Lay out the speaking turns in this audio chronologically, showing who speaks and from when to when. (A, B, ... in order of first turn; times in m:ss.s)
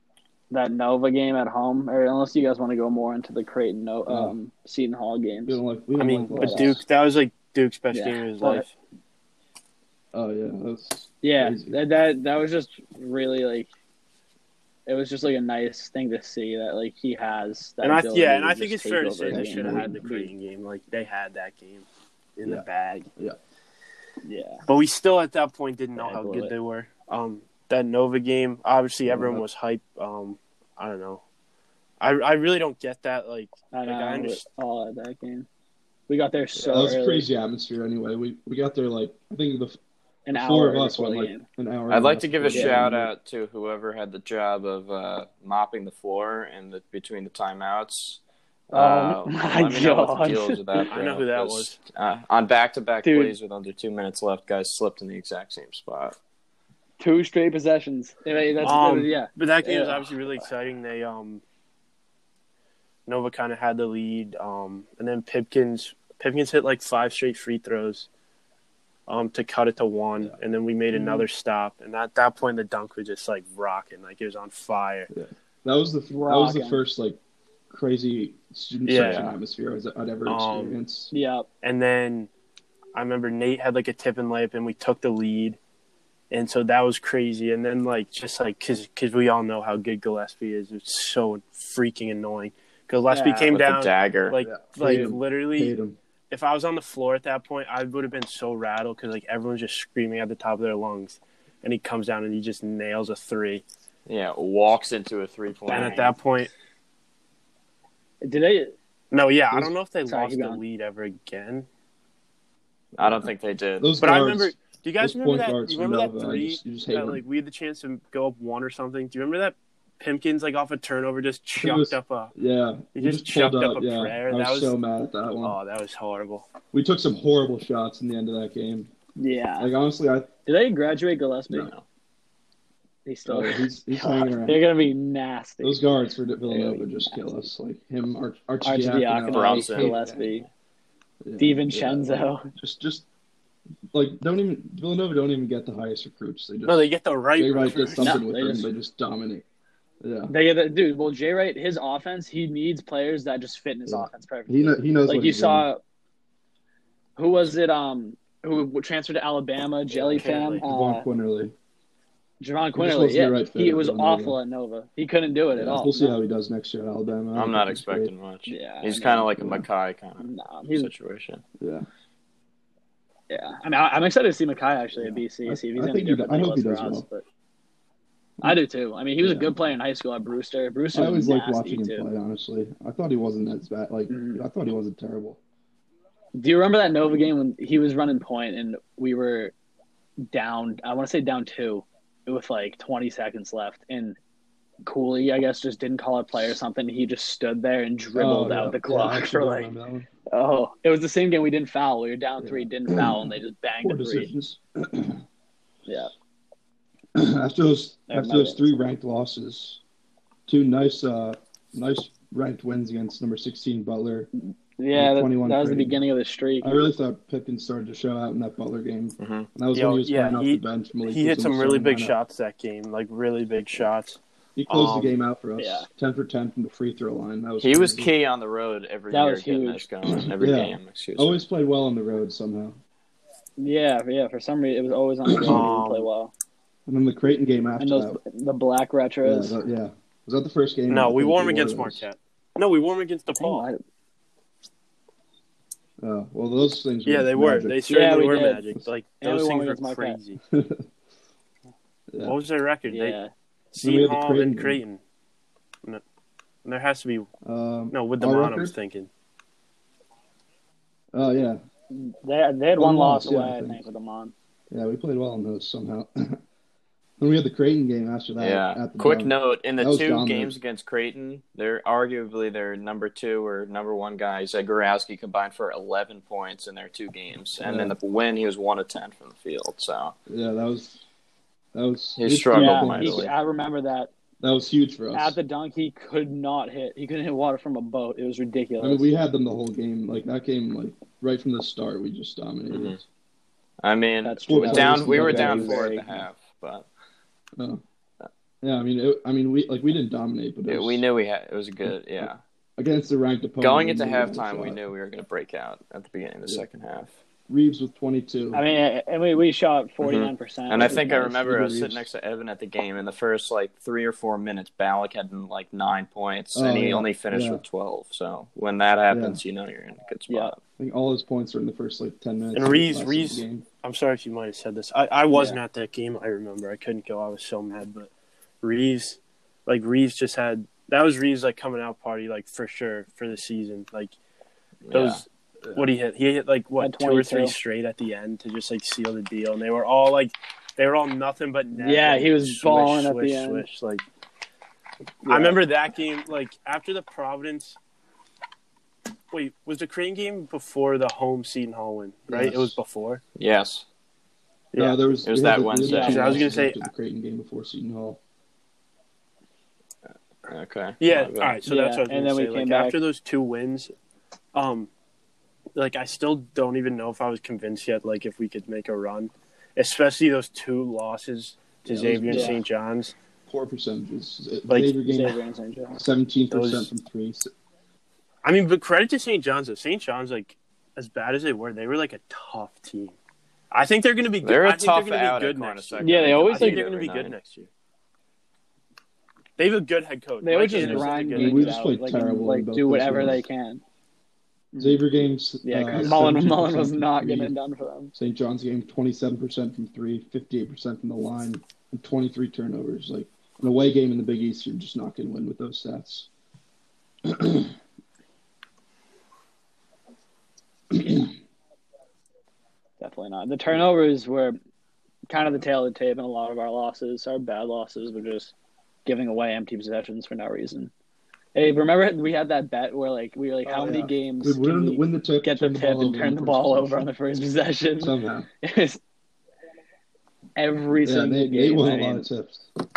0:00.5-0:05.6 A
0:04.1-0:04.3 B
0:05.4-0:06.8 B
0:06.0-0:08.7 C
0:06.4-0:06.7 A
0:07.9-0:08.6 A
0:10.1-0:11.8 B
0:11.2-0:13.7 A
0:14.9-0:20.3 A
0:17.8-0:23.1 C
0:19.3-0:20.0 B
0:24.2-0:24.6 A
0:24.7-0:31.2 C
0:26.0-0:26.5 A
0:29.0-0:29.4 B
0:32.0-0:34.4 C
0:33.7-0:35.5 A
0:36.1-0:37.2 A
0:36.6-0:39.8 B
0:40.2-0:41.4 A
0:40.3-0:43.1 B
0:41.9-0:48.2 D
0:42.5-0:42.9 A
0:48.7-0:56.2 D
0:48.7-0:50.9 A
0:50.9-0:51.8 C
0:53.0-0:53.3 A
0:57.0-1:00.1 A
0:58.6-1:01.4 C
1:03.0-1:08.1 C
1:09.1-1:15.1 C
1:10.9-1:11.2 B
1:15.1-1:17.2 B
1:16.1-1:16.8 A
1:17.7-1:21.1 B
1:18.8-1:19.3 C
1:18.9-1:19.4 D
1:20.2-1:20.8 C
1:21.1-1:21.5 A
1:21.6-1:22.3 C
1:22.9-1:25.6 C
1:26.3-1:35.7 C
1:33.1-1:33.6 A
1:33.5-1:34.3 D
1:34.4-1:36.0 B
1:36.3-1:43.6 C
1:44.1-1:46.1 D
1:45.7-1:46.5 C
1:48.2-1:48.7 A
1:49.1-1:51.7 C
1:50.1-1:50.6 A
1:52.9-1:54.0 D
1:53.0-1:53.3 B
1:53.8-1:57.2 B
1:54.0-2:02.3 C
2:01.6-2:05.6 B
2:02.9-2:04.7 C
2:05.4-2:06.4 C
2:06.7-2:08.9 B
2:09.2-2:09.7 A
2:09.6-2:10.3 B
2:10.4-2:11.7 A
2:13.0-2:15.8 A
2:13.2-2:14.8 B
2:15.6-2:20.2 B
2:16.4-2:17.4 A
2:18.6-2:20.4 A
2:19.3-2:20.4 D
2:21.2-2:23.0 B
2:21.4-2:22.5 A
2:23.9-2:26.8 B
2:26.6-2:28.2 C
2:27.4-2:29.4 B
2:28.0-2:28.7 A
2:30.0-2:30.3 B
2:30.3-2:35.8 A
2:33.9-2:35.6 B
2:37.2-2:41.1 A
2:39.9-2:41.5 B
2:40.1-2:40.6 C
2:42.4-2:46.2 A
2:42.7-2:44.4 B
2:45.5-2:48.1 B
2:47.3-2:51.4 D
2:48.5-2:49.6 A
2:50.2-2:50.9 A
2:51.6-2:51.9 B
2:53.3-2:57.2 A
2:55.0-2:57.0 B
2:58.4-3:02.0 A
2:59.2-2:59.5 B
3:00.9-3:05.4 B
3:04.1-3:04.4 A
3:06.4-3:09.5 A
3:10.3-3:14.2 A
3:14.8-3:19.7 A
3:18.1-3:20.1 B
3:20.3-3:24.3 A
3:22.4-3:25.2 B
3:27.1-3:29.8 B
3:28.1-3:28.8 A
3:30.5-3:34.3 B
3:34.4-3:36.9 A
3:34.9-3:36.0 B
3:36.6-3:42.1 B
3:39.2-3:39.5 D
3:39.7-3:44.2 C
3:44.6-3:48.1 B
3:45.6-3:45.9 A
3:47.6-3:51.4 D
3:49.1-3:49.8 A
3:50.1-3:52.8 B
3:53.6-3:56.3 A
3:55.3-3:55.6 B
3:55.5-3:56.1 C
3:56.9-3:58.2 B
3:57.8-3:59.6 A
3:59.2-4:02.0 B
4:00.9-4:03.7 C
4:03.3-4:03.8 A
4:06.0-4:07.8 B
4:07.0-4:10.4 C
4:07.9-4:08.6 A
4:09.2-4:10.2 A
4:10.5-4:10.9 B
4:12.1-4:12.4 B
4:12.2-4:13.2 C
4:12.9-4:13.3 A
4:13.7-4:15.0 C
4:13.8-4:14.8 B
4:16.6-4:17.3 C
4:17.4-4:18.7 B
4:17.9-4:19.1 C
4:21.1-4:21.6 B
4:21.9-4:24.3 A
4:22.8-4:23.8 B
4:24.7-4:26.4 B
4:27.2-4:30.5 B
4:28.4-4:40.1 D
4:37.6-4:37.9 B
4:40.3-4:41.0 B
4:41.7-4:43.3 B
4:42.2-4:43.3 D
4:42.5-4:44.1 A
4:44.4-4:45.4 B
4:45.1-4:49.1 A
4:48.8-4:53.0 B
4:52.7-4:53.0 D
4:53.8-4:56.9 D
4:54.2-4:56.2 A
4:54.5-4:55.8 B
4:57.6-4:57.8 B
4:58.6-5:01.0 B
5:00.7-5:02.4 D
5:02.2-5:04.8 B
5:03.6-5:07.1 D
5:07.5-5:08.6 B
5:08.5-5:11.3 A
5:10.0-5:20.6 D
5:10.8-5:12.0 B
5:16.5-5:17.6 B
5:19.1-5:19.4 B
5:20.3-5:20.5 A
5:20.8-5:23.6 B
5:22.5-5:34.2 C
5:25.3-5:25.6 A
5:34.8-5:35.2 D
5:34.9-5:44.0 C
5:35.6-5:35.9 B
5:36.8-5:37.5 A
5:41.8-5:43.6 A
5:45.2-5:45.6 A
5:45.3-5:47.8 C
5:49.3-5:53.2 C
5:52.3-5:52.8 B
5:53.4-5:53.8 D
5:54.7-5:55.0 C
5:54.8-5:58.2 B
5:55.2-5:56.4 D
5:55.8-5:56.4 A
5:56.0-5:56.8 C
6:00.5-6:01.6 D
6:01.0-6:03.9 C
6:01.6-6:03.0 A
6:04.5-6:04.9 C
6:05.7-6:13.1 C
6:11.8-6:12.6 B
6:12.3-6:12.6 A
6:13.5-6:15.4 B
6:14.7-6:14.9 C
6:15.0-6:16.0 A
6:15.9-6:17.5 B
6:16.5-6:16.9 C
6:18.4-6:23.2 C
6:23.7-6:27.7 C
6:24.4-6:27.3 D
6:26.0-6:26.8 A
6:29.6-6:31.8 C
6:30.4-6:33.8 A
6:30.8-6:33.4 B
6:34.7-6:35.1 A
6:34.8-6:37.5 B
6:35.6-6:38.1 A
6:38.2-6:46.3 B
6:47.2-6:47.8 B
6:50.9-6:51.3 B
6:53.0-6:54.6 A
6:55.3-6:58.5 A
6:59.0-7:00.9 A
7:01.5-7:09.0 A
7:03.8-7:07.1 B
7:08.0-7:08.5 B
7:10.6-7:12.3 A
7:11.0-7:12.7 B